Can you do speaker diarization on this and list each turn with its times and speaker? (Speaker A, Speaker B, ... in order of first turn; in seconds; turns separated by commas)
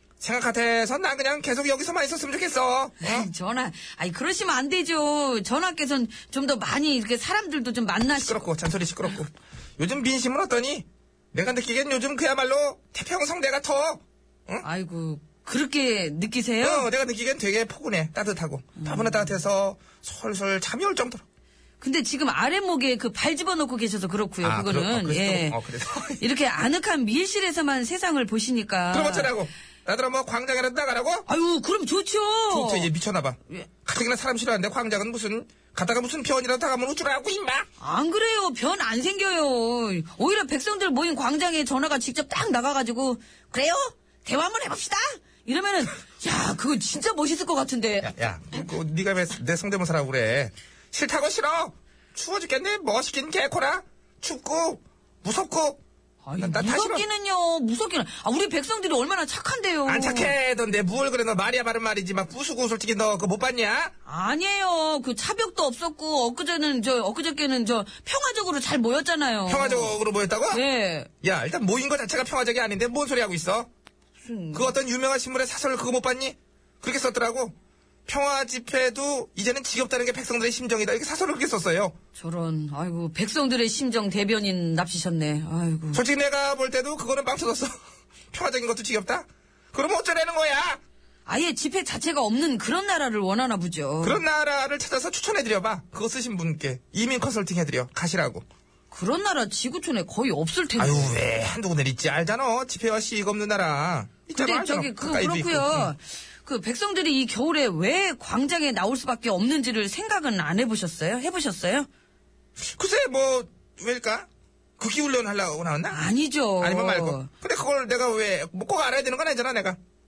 Speaker A: 0.2-3.3, Speaker B: 3.0-8.4, Speaker A: 8.1-14.6, Speaker B: 14.6-16.9, Speaker A: 16.6-21.2, Speaker B: 18.8-19.3, Speaker B: 21.8-25.6, Speaker A: 24.4-26.2, Speaker B: 26.2-29.3, Speaker A: 28.9-31.2, Speaker B: 31.3-32.9, Speaker A: 32.5-37.7, Speaker B: 37.8-48.1, Speaker A: 48.0-55.8, Speaker B: 56.2-60.3, Speaker A: 56.4-57.0, Speaker A: 59.9-63.9, Speaker B: 64.0-70.0, Speaker A: 69.5-70.6, Speaker B: 70.5-71.1, Speaker A: 71.2-73.7, Speaker B: 74.2-74.7, Speaker A: 74.5-77.5, Speaker A: 78.0-81.9, Speaker B: 82.2-86.0, Speaker A: 85.9-87.8, Speaker A: 88.3-90.8, Speaker B: 91.2-94.2, Speaker A: 94.0-98.4, Speaker B: 98.9-101.2, Speaker A: 100.8-105.9, Speaker B: 104.3-111.9, Speaker A: 112.6-116.0, Speaker B: 115.9-117.3, Speaker A: 116.6-119.8